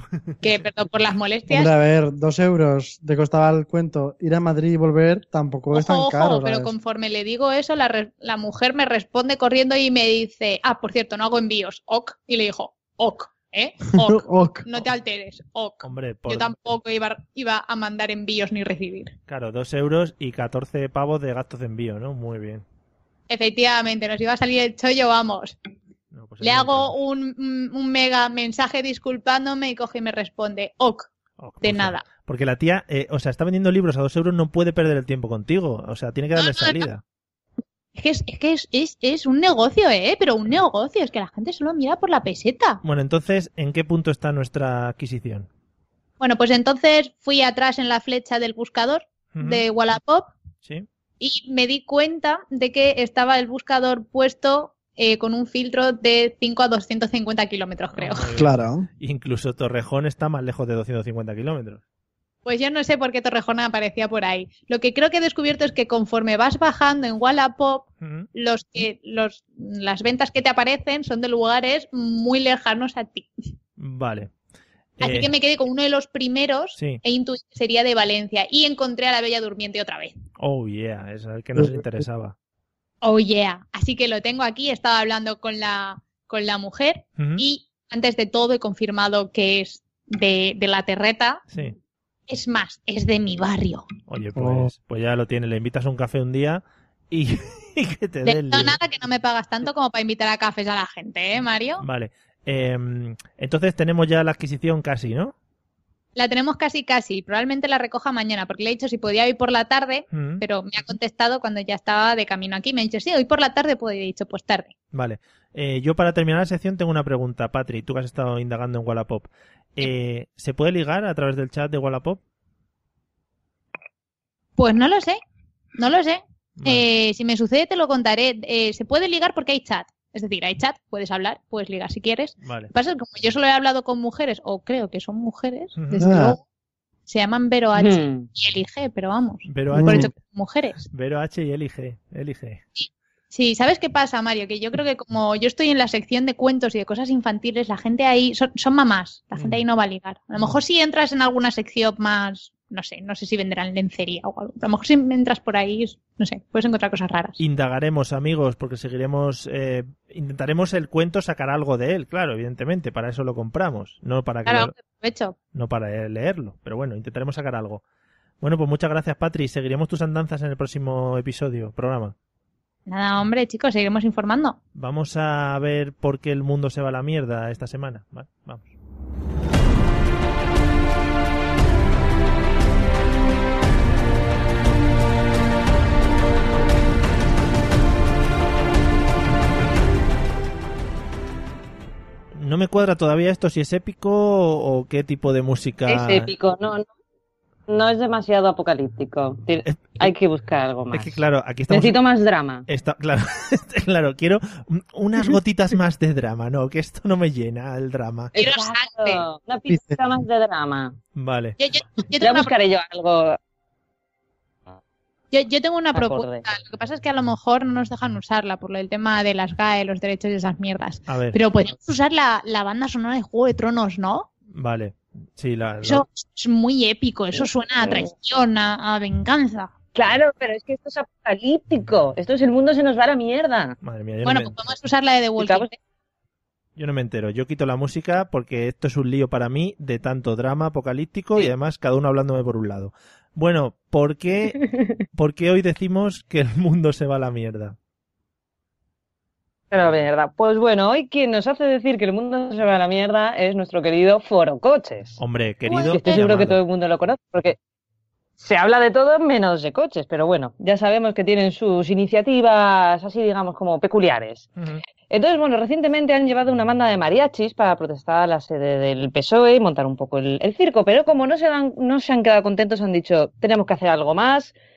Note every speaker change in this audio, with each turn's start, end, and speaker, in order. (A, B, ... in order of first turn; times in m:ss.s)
0:00.4-0:01.7 A
0:01.5-0:06.7 B
0:05.7-0:19.2 A
0:14.0-0:14.6 B
0:15.8-0:16.7 C
0:19.3-0:22.6 C
0:23.3-0:25.6 A
0:26.1-0:27.0 C
0:26.4-0:31.1 A
0:31.4-0:37.0 C
0:31.6-0:32.0 A
0:36.4-0:36.8 A
0:38.0-0:42.8 A
0:42.8-0:45.5 C
0:46.2-0:50.3 A
0:49.3-0:49.6 C
0:51.2-0:58.3 A
0:58.0-1:01.8 C
0:58.4-0:58.9 B
1:02.4-1:13.3 A
1:08.0-1:08.3 C
1:13.8-1:14.3 C
1:15.0-1:15.3 C
1:15.0-1:20.2 A
1:16.8-1:17.0 C
1:20.4-1:22.4 C
1:21.6-1:21.8 B
1:23.0-1:31.4 A
1:27.2-1:27.4 C
1:32.3-1:33.9 A
1:34.1-1:38.8 C
1:34.4-1:34.7 B
1:38.2-1:41.8 A
1:41.8-1:45.3 C
1:46.2-1:54.7 A
1:50.1-1:50.4 C
1:54.9-2:02.2 C
2:04.6-2:05.2 A
2:05.8-2:16.4 A
2:06.6-2:06.8 C
2:12.4-2:12.7 C
2:15.8-2:16.1 C
2:16.0-2:16.4 B
2:17.1-2:20.9 A
2:17.8-2:18.3 D
2:19.5-2:20.1 C
2:19.7-2:20.1 B
2:20.9-2:22.6 C
2:22.8-2:37.4 A
2:29.4-2:29.6 C
2:37.4-2:44.7 C
2:44.5-2:45.4 A
2:45.5-2:47.8 C
2:48.4-2:52.2 C
2:52.9-2:54.6 A
2:54.8-2:58.7 C
3:12.4-3:16.3 C
3:15.9-3:16.9 D
3:17.7-3:21.2 D
3:19.7-3:20.1 C
3:20.9-3:22.0 C
3:21.7-3:22.7 D
3:22.7-3:28.3 C
3:28.4-3:31.0 D
3:28.4-3:29.2 A
3:29.7-3:30.0 B
3:31.1-3:31.6 C
3:31.6-3:32.5 A
3:32.2-3:33.4 D
3:35.3-3:44.3 A
3:36.0-3:36.4 D
3:41.1-3:41.4 C
3:44.5-3:46.0 C
3:45.8-3:49.7 A
3:49.9-3:53.8 D
3:53.8-3:54.8 C
3:54.2-3:55.8 A
3:55.4-3:55.7 D
3:56.8-4:04.6 C
4:04.6-4:05.0 D
4:05.2-4:07.8 C
4:09.7-4:15.2 D
4:15.2-4:16.6 C
4:15.7-4:16.2 A
4:15.8-4:17.6 D
4:18.4-4:24.5 D
4:25.1-4:34.5 D